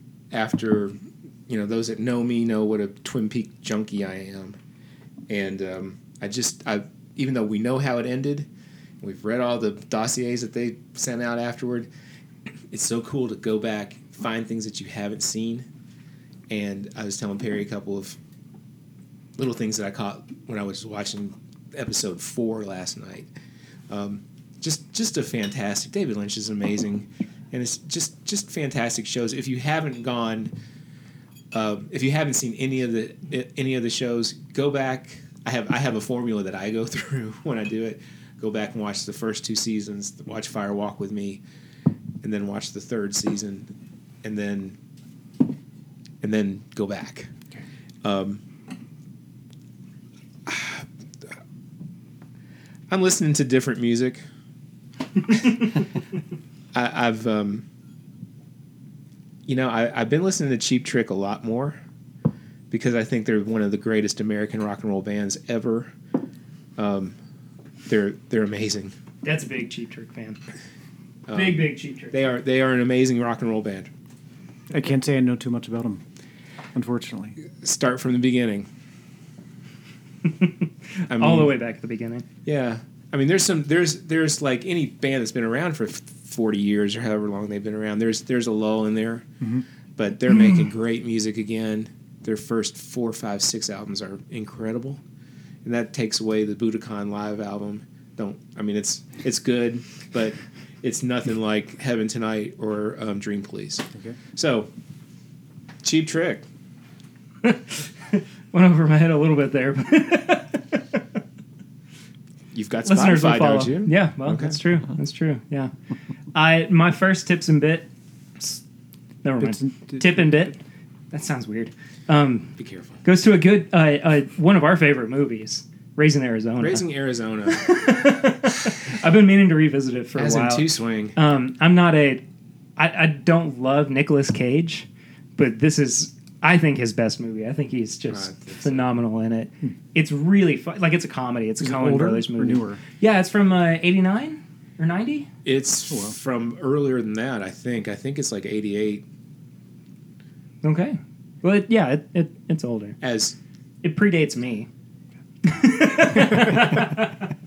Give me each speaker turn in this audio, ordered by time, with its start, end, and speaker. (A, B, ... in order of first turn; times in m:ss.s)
0:00.3-0:04.6 A
0:05.3-0:08.5 A
0:09.0-0:11.9 A
0:12.7-0:15.7 A
0:16.5-0:18.2 A
0:19.4-0:23.3 A
0:23.9-0:30.5 A
0:31.5-0:41.4 A
0:42.2-0:43.7 A
0:44.2-0:44.8 A
0:46.2-0:47.3 A
0:48.0-0:48.4 A
0:50.4-0:50.8 A
0:52.9-0:54.2 A
0:56.7-0:57.6 A
0:59.5-1:01.8 A
1:02.7-1:05.9 A
1:06.8-1:07.1 A
1:07.8-1:08.9 A
1:09.2-1:10.4 B
1:11.3-1:13.9 A
1:11.3-1:12.2 B
1:14.7-1:16.0 C
1:16.7-1:17.4 C
1:17.6-1:18.7 A
1:20.2-1:22.2 B
1:21.1-1:21.5 A
1:22.4-1:29.4 A
1:30.0-1:35.0 A
1:35.6-1:44.7 A
1:45.8-1:46.4 A
1:47.4-1:50.8 B
1:52.5-1:54.5 A
1:52.8-1:55.7 B
1:56.3-1:58.6 B
1:59.2-2:00.6 B
1:59.4-2:00.5 C
2:01.1-2:06.8 B
2:02.6-2:03.0 A
2:06.6-2:07.7 A
2:07.5-2:12.2 B
2:10.2-2:11.2 A
2:12.8-2:25.3 B
2:18.1-2:18.8 A
2:21.6-2:22.8 C
2:25.4-2:29.0 A
2:25.9-2:26.2 C
2:30.6-2:33.0 B
2:33.0-2:33.4 A
2:33.8-2:34.7 B
2:35.4-2:37.3 B